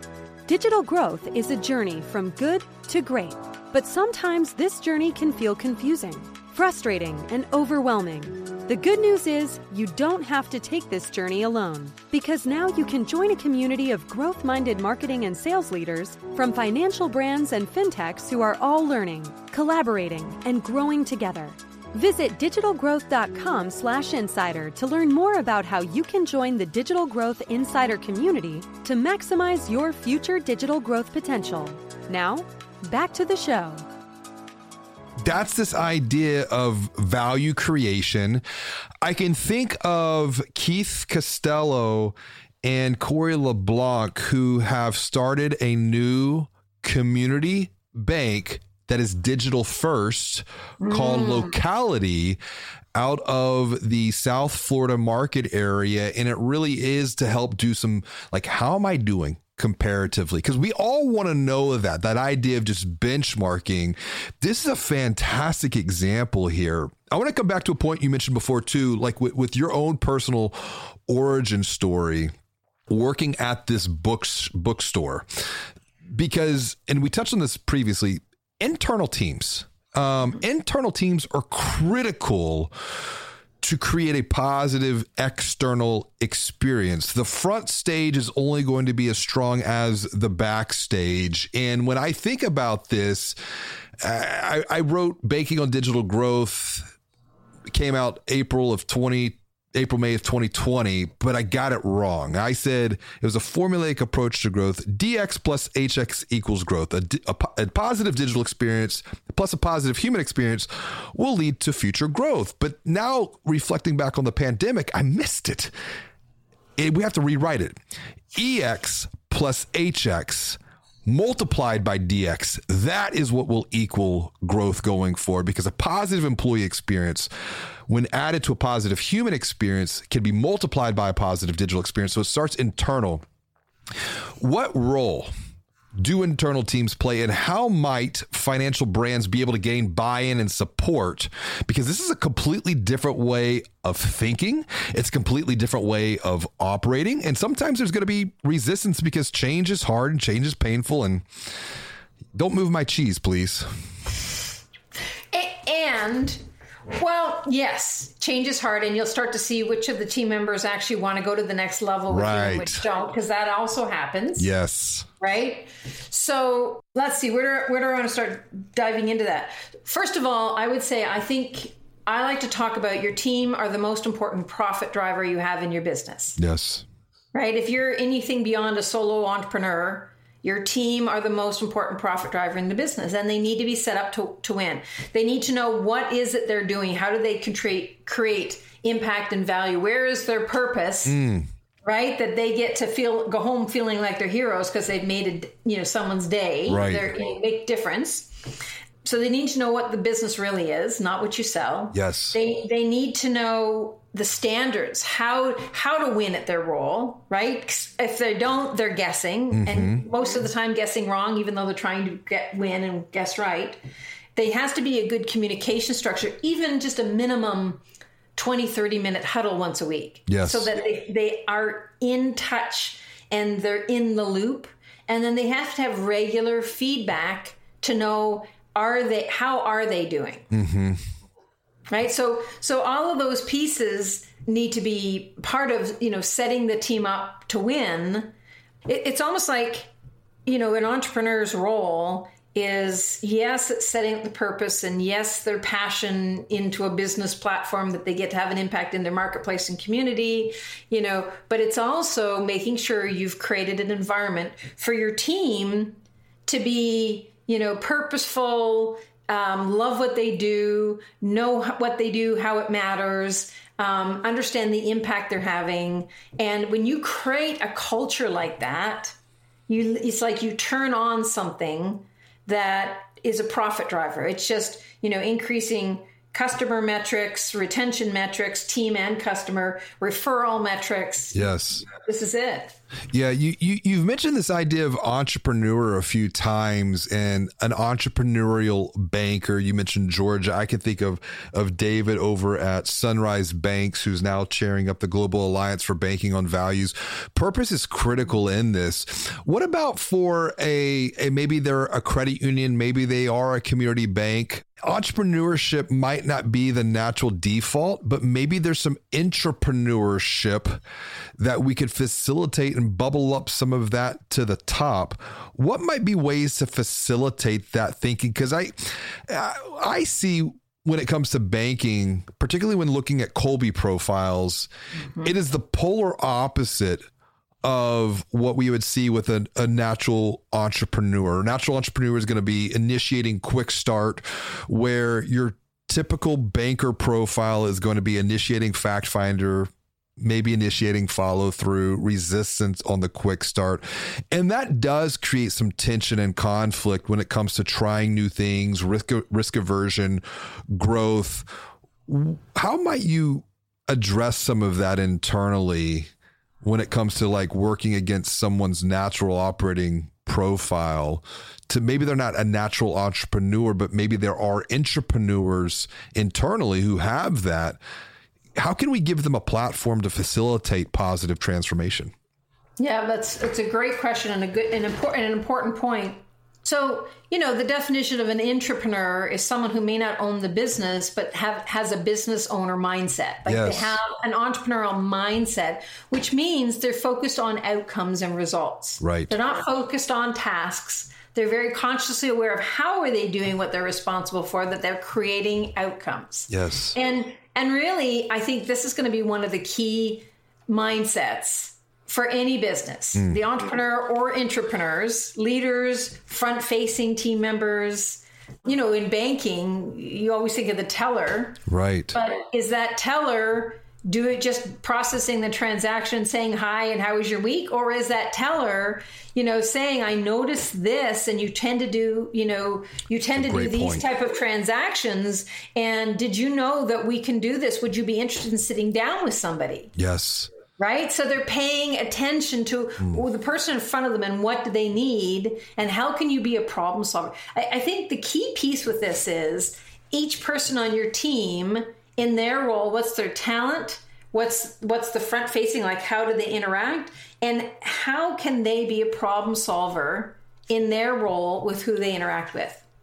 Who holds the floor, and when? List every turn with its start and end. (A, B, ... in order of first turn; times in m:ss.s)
0:00.5-0:33.8 A
0:35.2-0:38.4 B
0:39.0-0:52.4 B
0:50.8-0:51.6 C
0:53.0-1:12.3 B
1:12.9-1:15.3 B
1:16.1-1:22.7 B
1:23.6-1:33.4 B
1:34.0-1:36.9 B
1:37.7-1:55.7 B
1:56.8-1:57.8 B
1:58.3-2:07.3 B
2:07.9-2:13.2 B
2:14.4-2:15.3 B
2:16.0-2:31.2 B
2:32.4-2:33.7 B
2:35.3-2:36.4 C
2:36.9-2:44.5 C
2:42.1-2:42.8 B
2:44.4-2:45.1 B
2:45.2-2:56.4 C
2:56.4-2:56.9 B
2:57.3-3:11.2 C
3:11.1-3:11.5 B
3:11.8-3:33.8 C
3:16.7-3:17.2 B
3:21.9-3:22.4 B
3:29.5-3:30.0 B
3:34.4-3:37.8 C
3:38.4-3:50.5 C
3:40.3-3:40.7 B
3:50.5-3:51.0 B
3:51.9-3:58.3 C
3:58.9-3:59.9 C
4:00.5-4:29.2 C
4:29.7-4:42.8 C
4:41.3-4:41.8 B
4:43.1-5:10.8 B
5:11.4-5:24.7 B
5:25.2-5:27.0 B
5:27.6-5:51.5 B
5:52.1-5:56.1 B
5:56.6-6:07.8 B
6:08.6-6:12.1 B
6:12.8-7:09.9 C
6:23.5-6:24.0 B
6:29.0-6:29.3 B
6:36.5-6:37.0 B
6:43.2-6:43.4 B
6:51.7-6:52.2 B
7:03.4-7:04.0 B
7:10.0-7:10.5 B
7:10.8-7:32.8 C